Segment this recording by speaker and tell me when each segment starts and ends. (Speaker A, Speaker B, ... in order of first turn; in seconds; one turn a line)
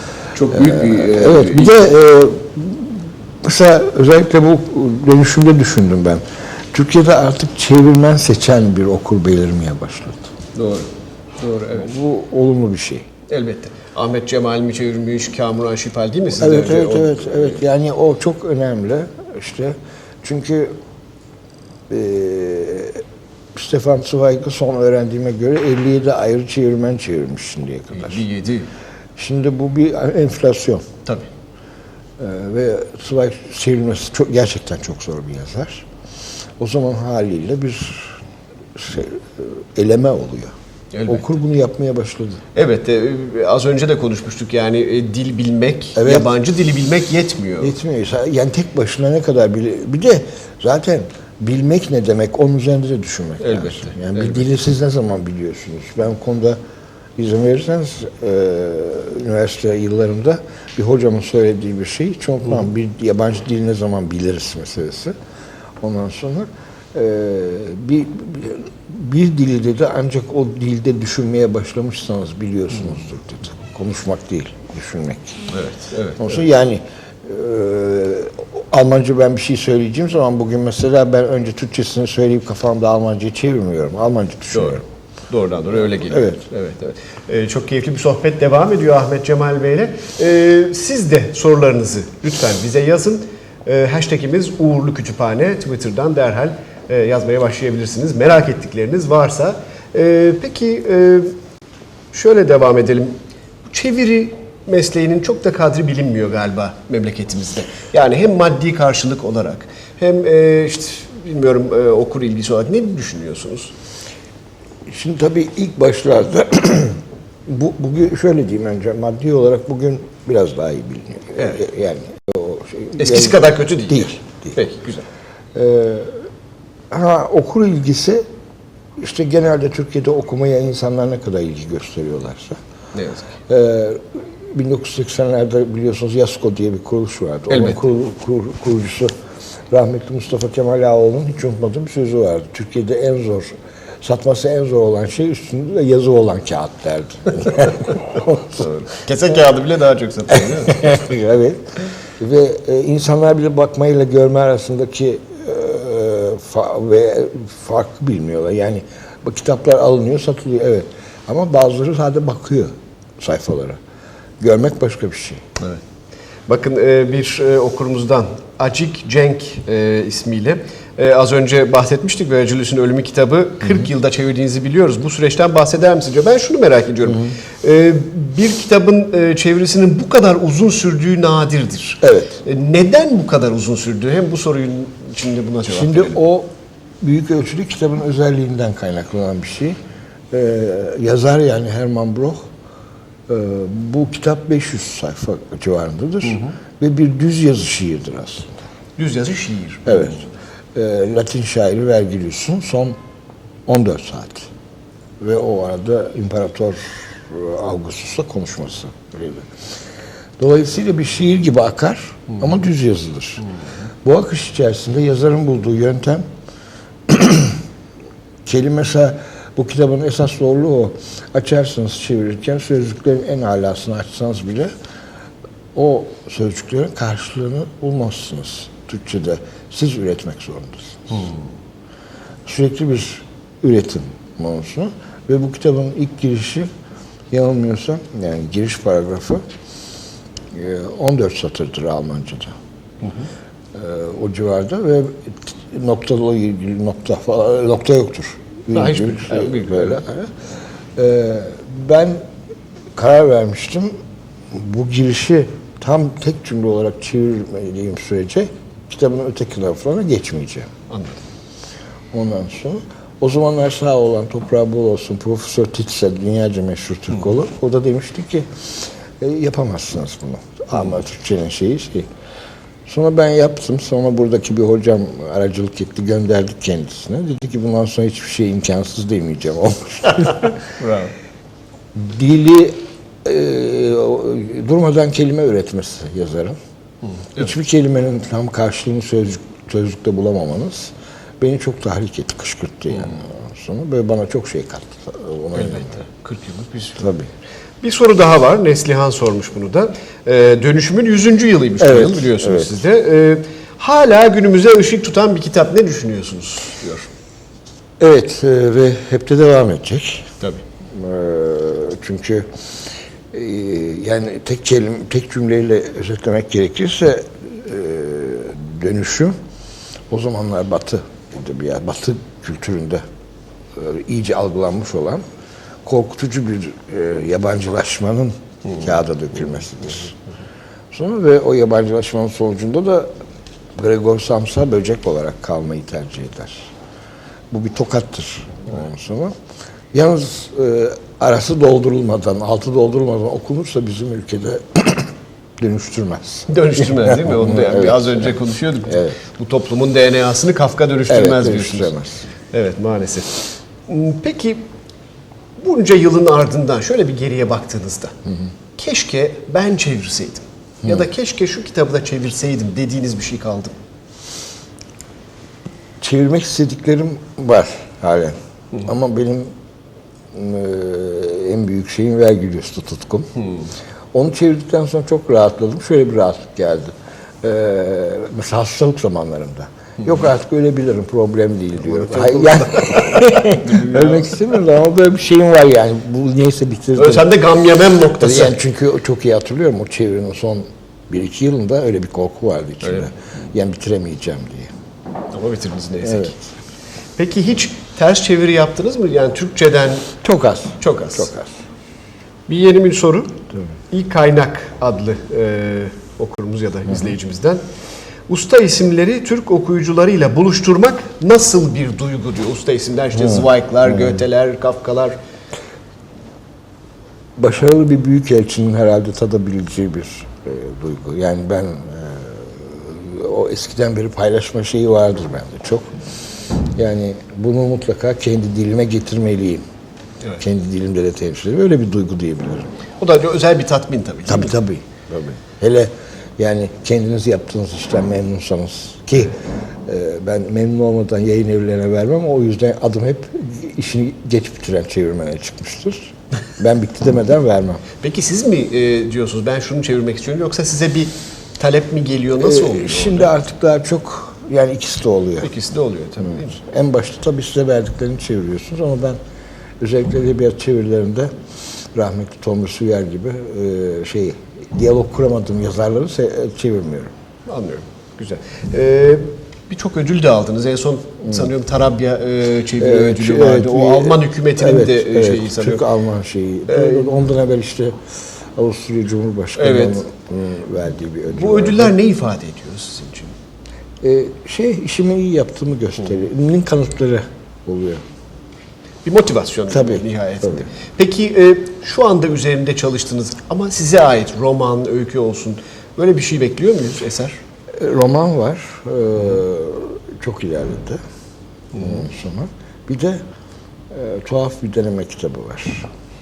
Speaker A: 0.3-1.9
Speaker B: 0.6-10.3
Speaker A: 10.6-11.9
Speaker B: 11.7-13.1
Speaker A: 13.3-17.6
Speaker B: 16.4-20.7
Speaker B: 21.9-28.2
Speaker A: 27.9-28.7
Speaker B: 29.2-30.9
Speaker B: 32.2-35.9
Speaker B: 36.6-38.2
Speaker B: 38.8-40.5
Speaker A: 40.9-41.2
Speaker B: 41.1-42.4
Speaker A: 42.5-47.8
Speaker B: 46.0-46.3
Speaker B: 47.6-56.6
Speaker A: 53.4-54.5
Speaker B: 57.2-65.2
Speaker B: 65.8-75.5
Speaker A: 75.5-76.4
Speaker B: 76.2-84.8
Speaker A: 84.5-101.3
Speaker B: 86.1-86.4
Speaker A: 102.1-103.1
Speaker A: 103.7-113.7
Speaker B: 114.9-124.5
Speaker A: 121.4-121.6
Speaker A: 123.0-125.1
Speaker B: 125.5-126.2
Speaker B: 126.9-128.2
Speaker B: 129.0-132.6
Speaker A: 132.9-133.3
Speaker B: 133.5-139.1
Speaker A: 137.5-137.8
Speaker B: 139.7-148.8
Speaker A: 148.8-150.9
Speaker B: 150.7-163.8
Speaker B: 164.4-165.4
Speaker A: 166.5-186.2
Speaker B: 177.1-177.3
Speaker B: 182.0-182.4
Speaker B: 185.7-186.5
Speaker B: 187.0-189.8
Speaker B: 190.3-192.5
Speaker B: 193.3-198.6
Speaker A: 199.0-200.1
Speaker B: 199.9-203.0
Speaker B: 203.7-204.5
Speaker B: 205.2-209.5
Speaker B: 210.4-213.5
Speaker B: 214.0-216.2
Speaker B: 217.1-217.6
Speaker B: 218.5-224.7
Speaker B: 225.8-231.2
Speaker B: 232.5-236.7
Speaker B: 237.3-239.4
Speaker B: 240.5-242.6
Speaker B: 243.7-250.3
Speaker A: 248.7-250.0
Speaker B: 251.0-252.2
Speaker B: 252.9-253.9
Speaker B: 254.5-260.7
Speaker A: 260.9-261.2
Speaker B: 262.1-272.1
Speaker B: 272.9-280.5
Speaker A: 280.8-281.1
Speaker B: 281.9-286.6
Speaker B: 287.4-296.0
Speaker A: 295.6-297.0
Speaker B: 297.0-297.3
Speaker A: 297.8-307.1
Speaker B: 301.8-302.7
Speaker B: 308.0-310.3
Speaker B: 310.9-312.5
Speaker B: 313.3-319.3
Speaker B: 320.1-323.0
Speaker B: 323.8-325.2
Speaker B: 325.9-330.1
Speaker B: 330.9-333.1
Speaker B: 333.8-336.7
Speaker B: 337.5-339.3
Speaker B: 339.9-348.3
Speaker A: 346.5-351.9
Speaker B: 348.9-349.2
Speaker B: 351.1-352.3
Speaker A: 352.5-354.6
Speaker A: 355.6-358.1
Speaker A: 358.8-363.7
Speaker B: 366.0-369.5
Speaker B: 370.3-373.4
Speaker B: 374.1-387.4
Speaker A: 381.9-384.4
Speaker A: 387.0-388.6
Speaker B: 388.2-394.7
Speaker A: 395.3-396.4
Speaker A: 397.2-400.1
Speaker B: 400.2-401.5
Speaker A: 400.8-401.3
Speaker A: 402.5-403.4
Speaker A: 403.9-407.6
Speaker A: 408.3-415.2
Speaker B: 413.2-414.2
Speaker B: 417.4-426.0
Speaker B: 426.8-429.6
Speaker B: 430.4-432.7
Speaker A: 433.0-434.6
Speaker B: 434.3-447.8
Speaker A: 448.0-453.3
Speaker B: 452.4-455.5
Speaker A: 455.4-456.5
Speaker B: 456.2-459.2
Speaker B: 459.8-461.3
Speaker B: 461.9-467.1
Speaker A: 467.5-475.8
Speaker B: 472.8-482.0
Speaker A: 476.7-477.1
Speaker A: 479.6-480.0
Speaker A: 481.3-483.3
Speaker B: 484.0-488.0
Speaker A: 489.1-497.4
Speaker B: 489.7-490.6
Speaker B: 497.8-501.0
Speaker B: 501.7-503.2
Speaker B: 503.9-505.9